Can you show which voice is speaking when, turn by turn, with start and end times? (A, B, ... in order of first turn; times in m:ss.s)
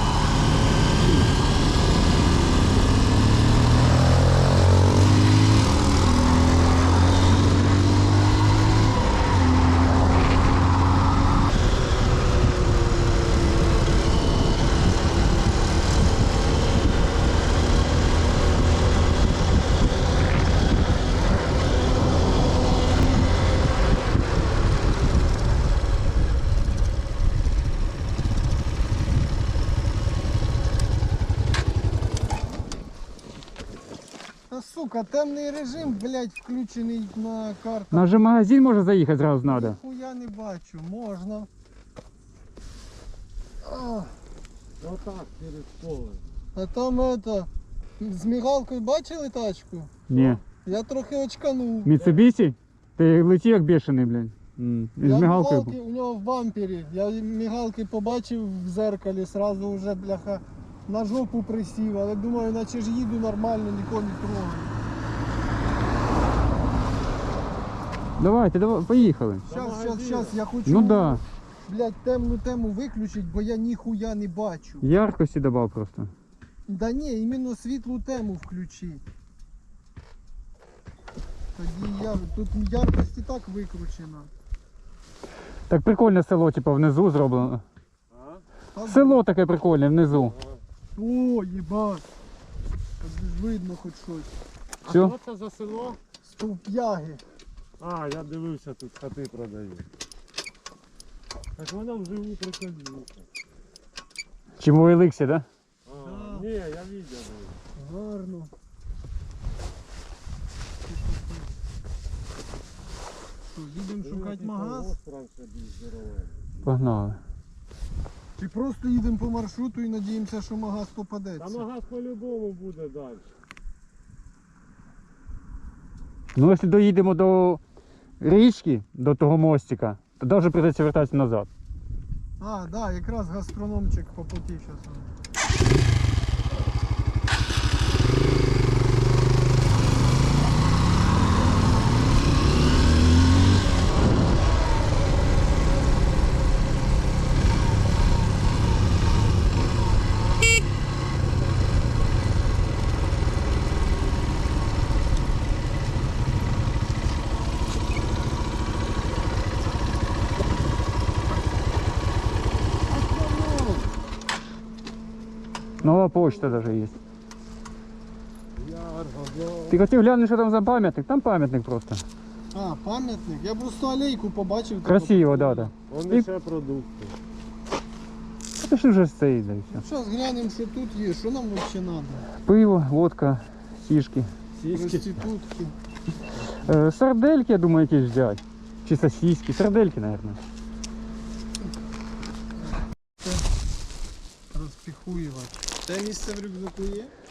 0:34.5-0:38.3 A
0:37.9-0:39.8 B
0:39.4-0:41.5 A
0:43.6-0:44.2 A
0:44.8-0:46.2 C
0:46.5-0:52.1 A
0:50.1-0:50.4 B
0:51.8-0:55.7 B
0:55.0-1:04.7 A
1:08.2-1:09.4 B
1:09.4-1:10.4 C
1:09.5-1:14.9 A
1:10.7-1:11.2 B
1:14.8-1:16.1 B
1:16.7-1:19.0 A
1:21.5-1:24.3 A
1:25.7-1:27.6 B
1:28.1-1:28.4 C
1:28.7-1:29.2 A
1:28.9-1:30.3 B
1:30.1-1:30.6 C
1:31.0-1:32.0 A
1:33.0-1:34.3 A
1:34.8-1:36.0 C
1:34.8-1:35.1 B
1:36.2-1:37.2 A
1:37.8-1:39.8 C
1:41.6-1:43.2 C
1:44.6-1:45.4 B
1:45.8-1:47.6 C
1:46.0-1:46.5 A
1:47.8-1:48.5 A
1:50.8-1:51.5 A
1:53.5-1:54.9 A
1:54.0-1:56.6 C
1:56.6-1:57.2 B
1:58.4-2:01.6 A
2:01.4-2:03.3 C
2:06.3-2:07.6 B
2:08.2-2:11.5 B
2:12.4-2:15.1 A
2:42.9-2:43.9 C
2:45.8-2:46.5 C
2:45.8-2:47.0 B
2:48.6-2:49.8 C
2:49.7-2:52.0 B
2:52.5-2:55.7 A
2:54.9-2:56.3 B
2:55.9-2:57.2 C
2:58.6-2:59.8 B
2:59.7-3:02.3 A
3:02.4-3:04.3 B
3:04.6-3:05.1 C
3:04.7-3:05.8 A
3:06.6-3:10.4 B
3:12.6-3:13.4 A
3:14.5-3:17.1 A